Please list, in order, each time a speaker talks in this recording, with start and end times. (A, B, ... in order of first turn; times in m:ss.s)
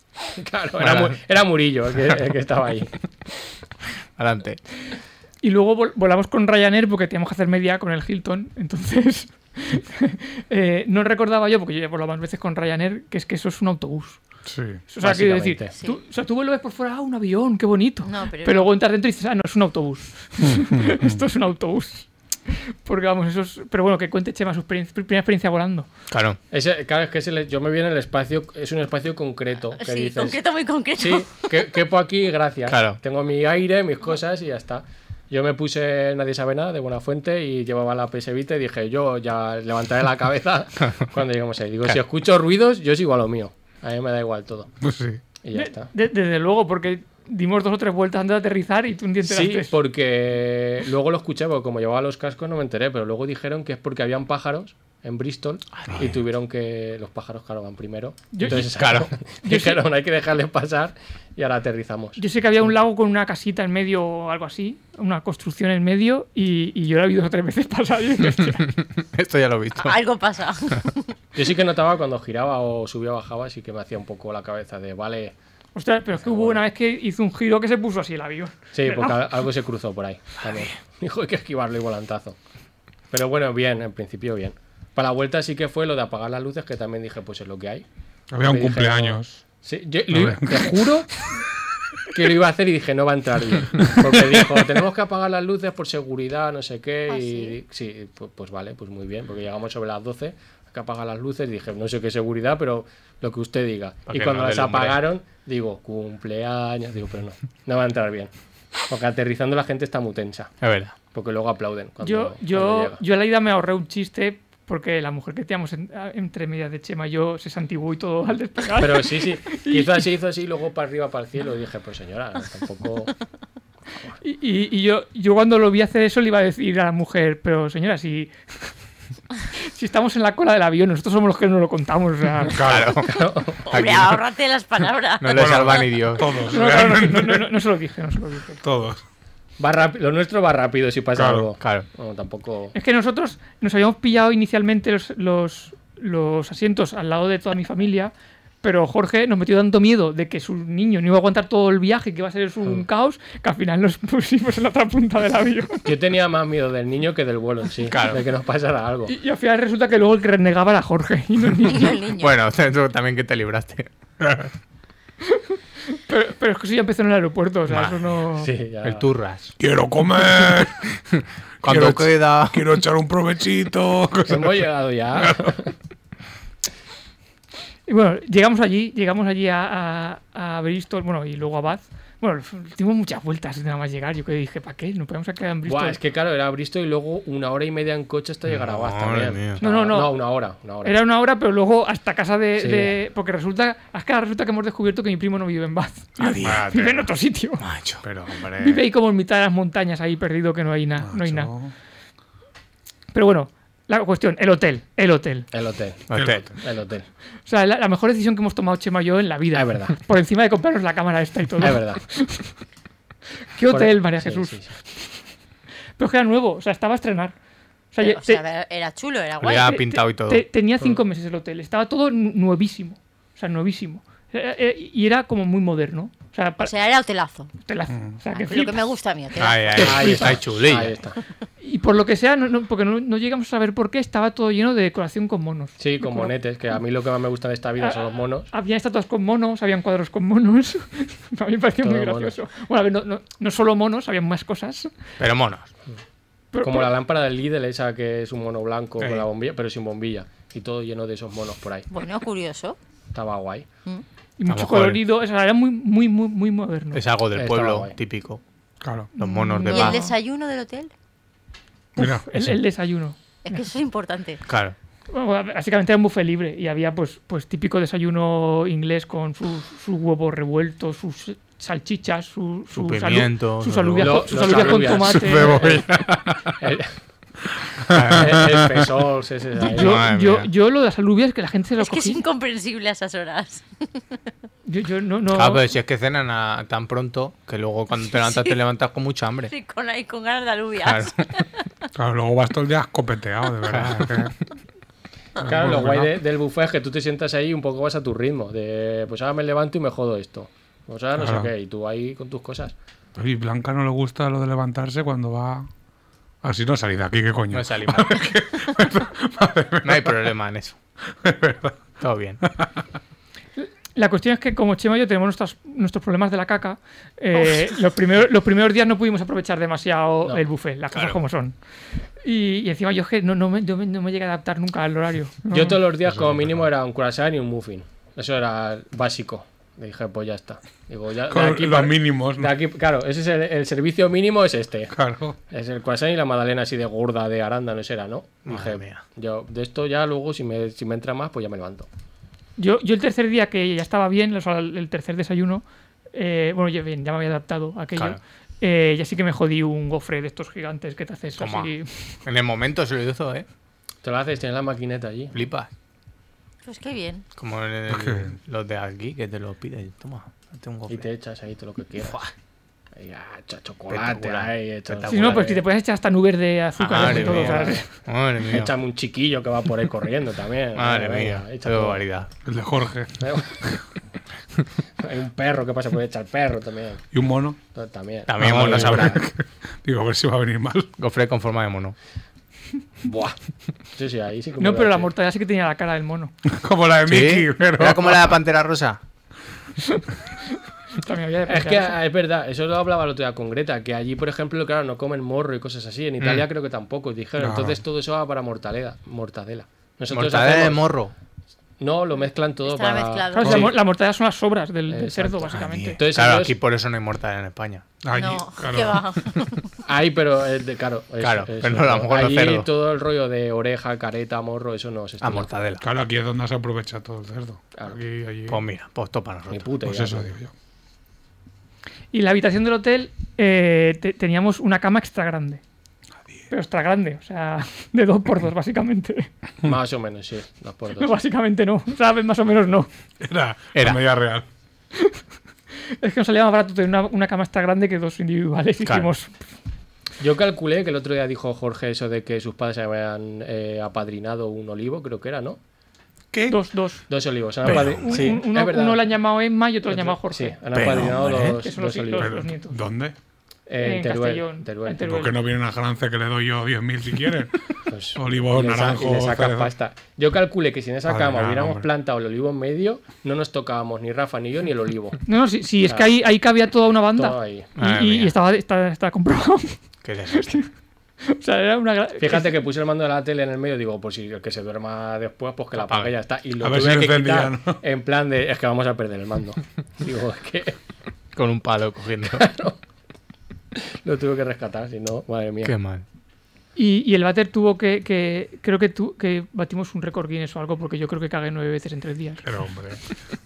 0:00.4-0:02.9 A
0:00.8-0:01.2 B
0:04.2-0:04.6 B
0:05.4-0:14.2 C
0:14.5-0:14.8 D
0:14.9-0:25.9 C
0:15.0-0:15.7 A
0:18.0-0:18.7 E
0:20.4-0:21.2 D
0:26.1-0:26.4 B
0:26.5-0:30.4 A
0:29.8-0:31.5 E
0:31.0-0:44.7 A
0:32.7-0:33.0 B
0:44.8-0:45.2 D
0:45.4-0:45.9 A
0:45.5-0:49.7 C
0:49.2-1:02.2 A
0:58.3-0:58.7 C
0:58.5-0:59.1 B
0:59.2-0:59.8 C
1:02.2-1:08.6 C
1:08.6-1:09.9 B
1:09.8-1:11.1 E
1:11.4-1:15.4 A
1:15.8-1:19.3 C
1:16.2-1:16.6 A
1:18.7-1:22.4 A
1:23.1-1:27.8 A
1:28.3-1:29.4 D
1:28.4-1:31.1 A
1:30.1-1:31.0 D
1:32.1-1:48.3 A
1:33.8-1:34.1 D
1:37.1-1:37.6 E
1:44.1-1:45.0 B
1:48.9-1:50.5 A
1:50.6-1:50.9 B
1:51.1-1:53.0 A
1:52.0-2:00.1 C
1:58.8-2:03.2 A
2:04.2-2:08.7 C
2:09.7-2:12.7 C
2:12.5-2:13.0 D
2:12.6-2:14.2 B
2:13.1-2:13.6 A
2:13.6-2:15.9 E
2:15.2-2:16.3 B
2:15.3-2:17.4 D
2:16.4-2:18.6 C
2:18.6-2:19.0 D
2:19.6-2:22.7 A
2:21.2-2:21.5 D
2:21.6-2:21.9 B
2:22.7-2:35.9 C
2:35.8-2:39.1 A
2:37.9-2:38.2 B
2:39.1-2:42.1 C
2:41.6-2:42.3 E
2:42.2-2:44.5 B
2:46.0-2:48.5 C
2:47.7-2:48.0 B
2:48.4-2:49.0 A
2:48.8-2:49.5 B
2:49.6-2:50.8 D
2:51.2-2:52.6 B
2:51.6-2:54.6 D
2:54.3-2:55.7 A
2:57.9-3:06.0 C
3:05.6-3:11.0 A
3:08.5-3:09.6 B
3:09.6-3:10.2 C
3:10.8-3:17.6 C
3:12.6-3:12.9 A
3:16.2-3:17.0 B
3:16.4-3:17.1 D
3:17.6-3:18.0 B
3:18.0-3:18.8 D
3:18.6-3:21.5 C
3:21.0-3:21.7 D
3:23.1-3:25.5 C
3:25.5-3:27.1 A
3:26.1-3:26.5 B
3:26.1-3:26.6 D
3:27.5-3:32.5 C
3:29.5-3:30.0 A
3:31.6-3:32.0 A
3:33.6-3:35.2 C
3:33.7-3:34.7 A
3:36.0-3:37.3 C
3:37.9-3:38.4 C
3:38.0-3:39.7 E
3:39.4-3:40.4 B
3:39.5-3:46.7 C
3:46.6-3:47.5 E
3:47.6-3:48.8 C
3:48.3-3:50.0 E
3:49.4-3:51.0 B
3:49.8-3:51.2 A
3:51.6-3:56.3 C
3:55.8-3:58.5 A
3:57.8-4:04.9 C
4:01.8-4:02.4 A
4:05.2-4:05.7 B
4:06.5-4:06.9 C
4:06.6-4:11.9 A
4:09.0-4:09.3 B
4:11.9-4:12.8 E
4:13.1-4:13.7 A
4:14.4-4:17.0 C
4:14.5-4:15.0 B
4:16.9-4:18.4 B
4:17.4-4:17.9 A
4:18.8-4:19.1 D
4:19.2-4:20.1 C
4:19.2-4:20.0 B
4:19.6-4:20.9 E
4:22.0-4:22.5 D
4:22.0-4:23.6 C
4:23.4-4:24.4 E
4:24.5-4:24.8 B
4:25.1-4:35.8 C
4:32.7-4:34.7 B
4:34.0-4:35.9 A
4:34.6-4:36.6 D
4:36.6-4:36.9 A
4:37.6-4:38.6 D
4:37.9-4:38.5 B
4:38.1-4:40.0 A
4:39.6-4:42.2 C
4:39.7-4:40.5 B
4:41.8-4:44.2 E
4:44.7-4:45.6 C
4:45.3-4:49.5 B
4:47.9-4:48.6 E
4:49.5-4:51.4 E
4:50.8-4:51.2 B
4:52.0-4:54.3 D
4:53.7-4:54.3 B
4:55.4-4:56.1 D
4:55.4-5:02.8 A
5:01.2-5:01.5 D
5:03.2-5:05.7 D
5:06.4-5:10.3 D
5:07.5-5:08.2 B
5:09.8-5:10.8 B
5:11.1-5:11.8 D
5:12.0-5:12.4 B
5:12.4-5:12.8 D
5:13.6-5:21.6 C
5:20.9-5:21.2 B
5:22.2-5:25.8 C
5:25.5-5:34.9 A
5:26.0-5:26.7 D
5:31.3-5:32.5 D
5:34.9-5:35.4 D
5:35.5-5:41.9 A
5:38.5-5:39.0 B
5:42.6-5:52.2 C
5:48.0-5:48.2 B
5:51.4-5:51.7 B
5:52.2-5:53.5 B
5:54.0-5:55.3 A
5:55.3-5:55.7 B
5:56.6-5:57.2 E
5:57.4-6:01.1 B
5:57.9-5:58.4 D
6:00.9-6:02.2 A
6:02.0-6:02.3 B
6:03.0-6:05.7 A
6:03.9-6:05.5 B
6:05.1-6:07.9 C
6:06.8-6:08.7 B
6:07.0-6:07.8 A
6:08.5-6:12.0 A
6:10.8-6:12.3 B
6:12.4-6:13.7 D
6:13.2-6:13.6 A
6:15.0-6:17.0 A
6:17.1-6:17.6 D
6:17.7-6:19.2 A
6:18.3-6:19.2 B
6:18.4-6:20.9 D
6:21.0-6:22.0 B
6:23.0-6:23.4 A
6:23.9-6:25.1 A
6:24.6-6:26.3 C
6:26.5-6:28.4 D
6:27.0-6:29.0 B
6:29.8-6:32.0 C
6:31.5-6:40.8 A
6:36.2-6:36.5 B
6:37.4-6:37.8 D
6:40.1-6:41.1 B
6:41.8-6:43.8 A
6:42.6-6:43.7 E
6:43.3-6:46.0 C
6:44.9-6:46.6 A
6:45.5-6:47.8 B
6:48.0-6:49.4 D
6:48.1-6:49.7 E
6:49.8-6:55.5 A
6:51.2-6:52.7 B
6:55.2-6:55.9 B
6:55.8-6:58.6 D
6:58.5-6:59.7 B
6:59.5-7:00.3 A
6:59.8-7:00.5 D
7:02.1-7:05.6 C
7:06.5-7:09.3 C
7:09.6-7:11.1 A
7:11.0-7:12.9 C
7:13.2-7:14.5 D
7:13.8-7:14.0 B
7:16.0-7:19.3 C
7:20.2-7:25.6 A
7:26.3-7:26.6 D
7:26.5-7:27.1 C
7:27.1-7:29.0 A
7:27.6-7:30.7 C
7:27.6-7:28.2 B
7:29.9-7:32.4 A
7:30.7-7:31.5 B
7:31.0-7:31.5 D
7:31.3-7:32.8 C
7:32.2-7:33.2 D
7:33.7-7:35.0 A
7:33.8-7:35.3 C
7:35.0-7:39.7 D
7:37.9-7:45.2 A
7:41.1-7:41.9 D
7:45.3-7:49.8 C
7:47.2-7:47.7 A
7:47.8-7:48.4 B
7:50.0-7:50.6 B
7:50.4-7:50.7 C
7:51.3-7:52.6 C
7:52.2-8:00.8 A
7:55.8-7:56.1 B
7:56.6-7:57.8 D
8:01.4-8:02.4 B
8:02.3-8:02.8 A
8:03.8-8:05.8 A
8:05.6-8:06.0 B
8:06.8-8:12.4 C
8:12.4-8:13.0 D